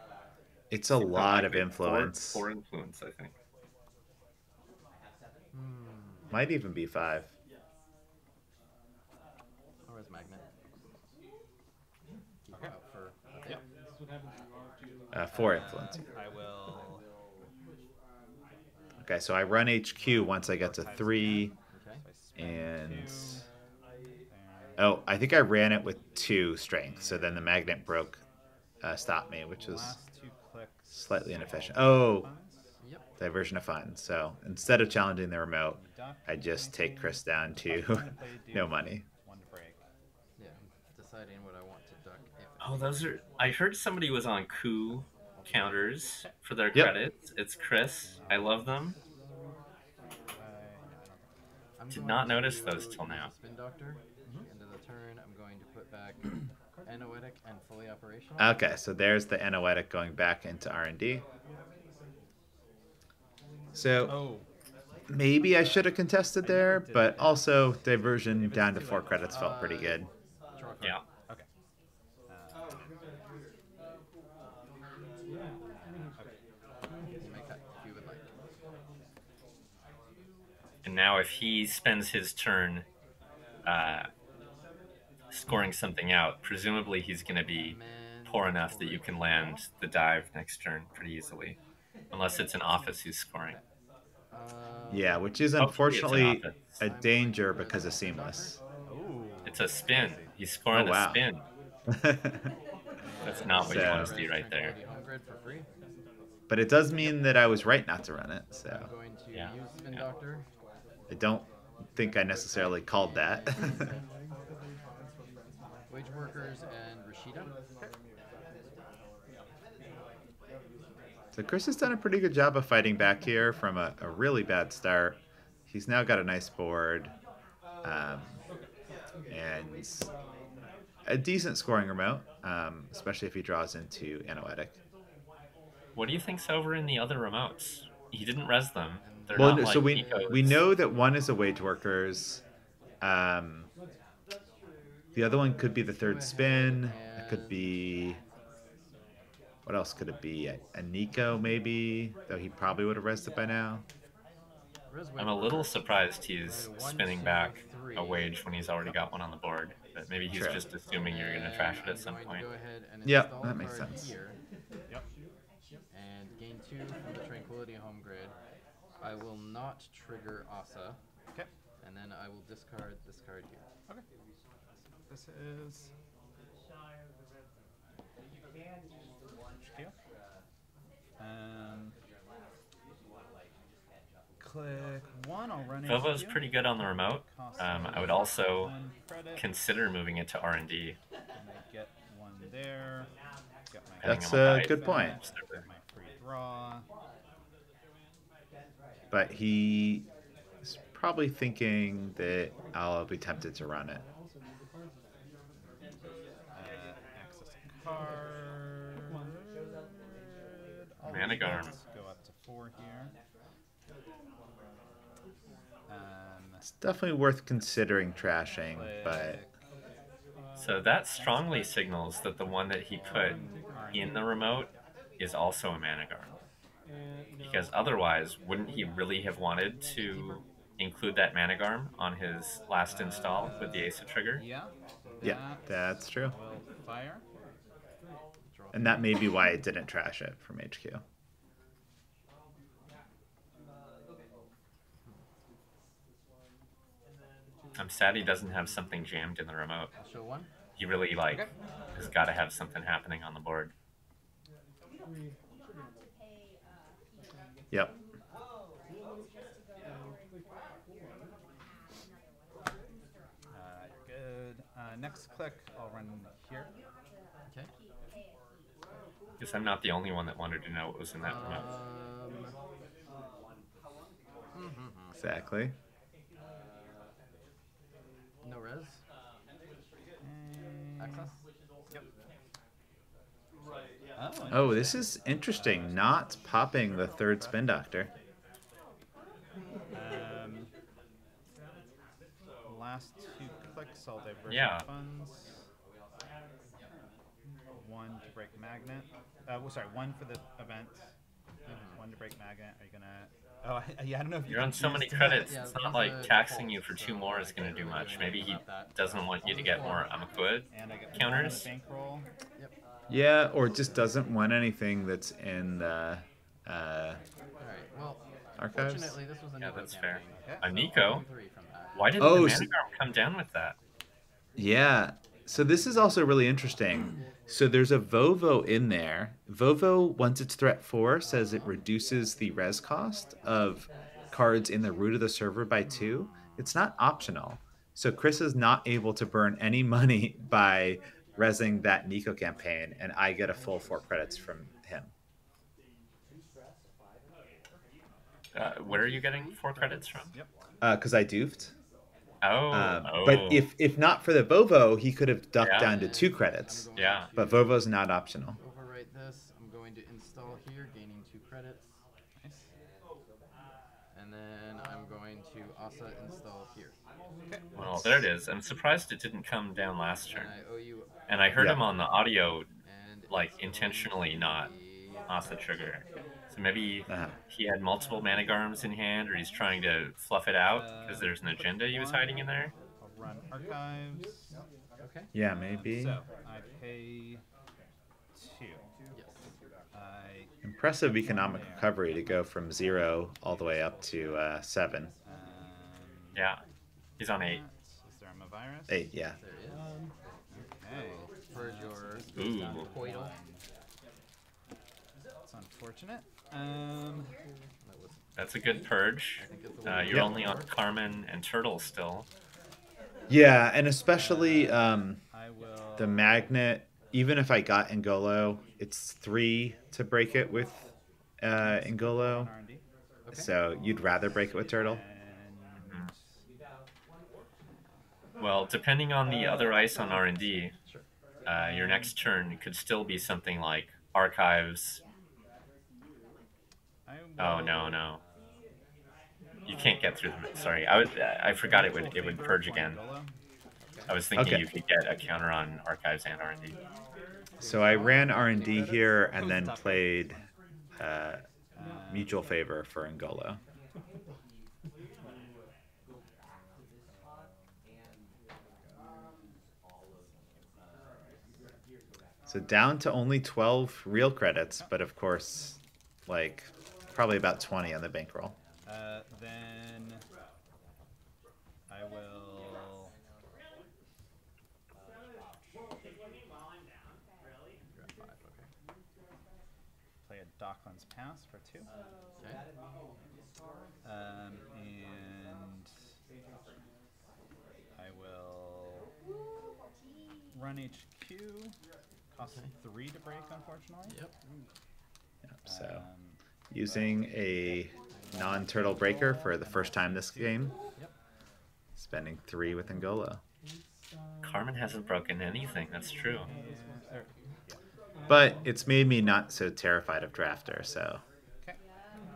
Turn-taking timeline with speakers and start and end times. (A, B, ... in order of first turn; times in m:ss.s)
0:00.7-0:02.5 A
0:00.9-0:03.3 B
0:05.5-0:06.4 C
0:06.3-0:07.3 A
0:09.8-0:10.4 C
0:12.4-0:13.6 C
0:15.1-0:16.0 A
0:15.3-0:17.0 D
0:19.0-0:21.5 A
0:20.0-0:23.4 D
0:21.7-0:22.0 C
0:22.4-0:23.4 A
0:24.3-0:24.9 D
0:24.8-0:28.2 A
0:26.9-0:27.6 D
0:28.8-0:30.0 A
0:29.6-0:32.7 D
0:30.9-0:32.3 A
0:33.2-0:39.0 A
0:35.7-0:39.8 D
0:40.4-0:43.1 C
0:42.6-0:49.0 B
0:45.4-0:45.8 C
0:48.0-0:48.8 D
0:50.4-0:51.2 D
0:51.8-0:56.3 C
0:51.9-0:53.3 B
0:56.8-0:58.6 C
0:58.4-1:01.2 A
1:03.8-1:04.3 A
1:04.0-1:04.5 D
1:05.1-1:10.1 A
1:05.4-1:09.6 D
1:09.3-1:11.0 C
1:12.3-1:12.9 D
1:17.2-1:18.2 C
1:20.8-1:22.9 B
1:23.6-1:24.1 B
1:25.3-1:31.6 B
1:27.6-1:29.6 C
1:32.1-1:33.6 B
1:34.3-1:35.2 C
1:34.9-1:38.6 A
1:35.6-1:36.6 B
1:36.8-1:38.6 C
1:38.9-1:40.3 D
1:39.4-1:41.4 B
1:40.7-1:41.2 A
1:41.9-1:42.5 A
1:43.1-1:43.8 D
1:43.2-1:45.7 C
1:43.2-1:44.8 B
1:43.6-1:44.2 A
1:46.5-1:48.9 A
1:48.6-1:50.4 C
1:49.3-1:50.0 B
1:51.1-1:53.9 A
1:52.6-1:54.0 C
1:55.9-1:57.6 C
2:01.4-2:07.1 A
2:07.8-2:08.4 A
2:09.3-2:10.1 A
2:11.1-2:14.8 A
2:16.0-2:20.6 B
2:19.0-2:20.6 C
2:19.4-2:22.4 A
2:23.0-2:23.7 A
2:25.2-2:28.2 A
2:26.0-2:27.9 C
2:29.7-2:33.8 A
2:34.9-2:38.4 C
2:35.2-2:42.4 B
2:40.3-2:40.6 A
2:40.9-2:44.4 C
2:43.0-2:44.1 A
2:45.9-2:48.4 C
2:49.0-2:51.0 C
2:51.8-2:53.6 C
2:55.1-2:55.9 D
2:59.6-2:59.9 D
3:01.2-3:02.0 D
3:04.4-3:09.5 D
3:05.9-3:08.8 B
3:09.4-3:11.0 B
3:11.4-3:13.1 D
3:13.7-3:16.9 D
3:14.0-3:15.6 B
3:14.0-3:15.2 A
3:19.1-3:20.1 A
3:20.6-3:24.0 A
3:26.5-3:33.1 D
3:31.1-3:31.7 B
3:35.9-3:36.6 D
3:36.6-3:39.4 A
3:38.7-3:39.5 D
3:40.6-3:43.4 B
3:43.0-3:44.1 D
3:43.9-3:46.3 B
3:47.4-3:54.4 B
3:50.1-3:50.4 C
3:52.9-3:53.6 D
3:54.4-3:57.2 D
3:55.2-3:56.4 A
3:58.5-3:59.1 C
3:58.7-4:01.0 A
4:07.8-4:09.9 B
4:10.0-4:10.5 C
4:10.8-4:13.7 B
4:23.5-4:26.7 D
4:29.4-4:31.7 B
4:31.2-4:32.5 C
4:34.5-4:35.2 C
4:35.2-4:35.7 A
4:38.4-4:39.0 C
4:40.2-4:41.3 D
4:41.0-4:41.4 C
4:44.2-4:47.8 D
4:44.5-4:48.1 A
4:49.9-4:50.7 D
4:52.7-4:55.5 D
4:54.5-4:54.9 B
4:57.8-5:01.1 D
5:01.7-5:02.0 C
5:02.0-5:05.5 D
5:04.5-5:11.7 B
5:05.2-5:10.3 C
5:10.7-5:12.3 D
5:13.1-5:17.2 A
5:17.6-5:22.3 C
5:18.6-5:19.2 A
5:19.6-5:21.2 B
5:20.4-5:20.7 D
5:21.9-5:23.8 B
5:22.2-5:22.7 A
5:24.6-5:45.1 A
5:31.2-5:31.7 C
5:36.0-5:36.6 C
5:48.5-5:50.3 B
5:48.8-5:50.4 C
5:50.8-5:51.7 A
5:52.4-5:53.7 B
5:52.7-5:58.6 A
5:55.6-5:55.9 B
5:55.8-5:57.7 C
5:57.0-5:57.3 B
5:58.6-6:01.9 C
6:04.1-6:07.0 C
6:07.8-6:10.5 B
6:07.8-6:08.3 A
6:10.3-6:11.1 C
6:11.3-6:12.7 B
6:11.6-6:11.8 A
6:12.8-6:15.6 C
6:13.3-6:14.7 B
6:15.3-6:22.7 B
6:17.1-6:17.3 A
6:20.7-6:22.5 D
6:23.0-6:24.5 D
6:25.0-6:25.3 C
6:25.3-6:26.2 A
6:25.4-6:27.4 D
6:28.4-6:28.9 D
6:29.1-6:29.4 C
6:29.9-6:32.4 D
6:30.6-6:35.1 A
6:35.2-6:36.5 D
6:36.4-6:36.6 B
6:37.2-6:37.6 B
6:37.4-6:39.0 D
6:38.9-6:39.4 A
6:39.4-6:39.8 C
6:40.5-6:43.6 D
6:40.9-6:43.3 C
6:42.3-6:42.9 B
6:45.5-6:47.3 D
6:47.8-6:50.7 C
6:48.4-6:52.3 B
6:50.1-6:50.4 A
6:53.3-6:55.2 A
6:54.2-6:56.3 D
6:56.0-7:00.9 A
7:01.4-7:02.5 A
7:01.6-7:02.8 D
7:03.2-7:03.5 C
7:03.3-7:05.0 A
7:04.3-7:06.2 D
7:05.8-7:06.1 B
7:08.4-7:10.7 B
7:09.3-7:11.0 C
7:09.4-7:10.2 D
7:11.5-7:15.0 B
7:11.6-7:12.1 D
7:17.1-7:18.0 D
7:17.4-7:18.2 B
7:19.7-7:23.0 B
7:21.4-7:23.3 D
7:23.8-7:24.2 C
7:24.1-7:26.8 B
7:24.4-7:24.7 A
7:27.6-7:30.4 D
7:27.6-7:30.4 A
7:31.0-7:31.4 A
7:31.8-7:32.3 D
7:32.1-7:33.6 A
7:42.5-7:48.6 A
7:48.8-7:50.2 D
7:51.9-7:53.1 D
7:58.0-7:58.6 C
8:00.2-8:01.9 D
8:04.0-8:05.9 D
8:08.0-8:09.1 D
8:10.5-8:11.8 D
8:12.3-8:14.2 D
8:14.1-8:14.4 C
8:15.6-8:16.1 A
8:15.7-8:20.7 D
8:16.7-8:20.8 A
8:22.0-8:23.4 A
8:24.4-8:26.5 B
8:26.4-8:27.8 D
8:28.3-8:31.2 A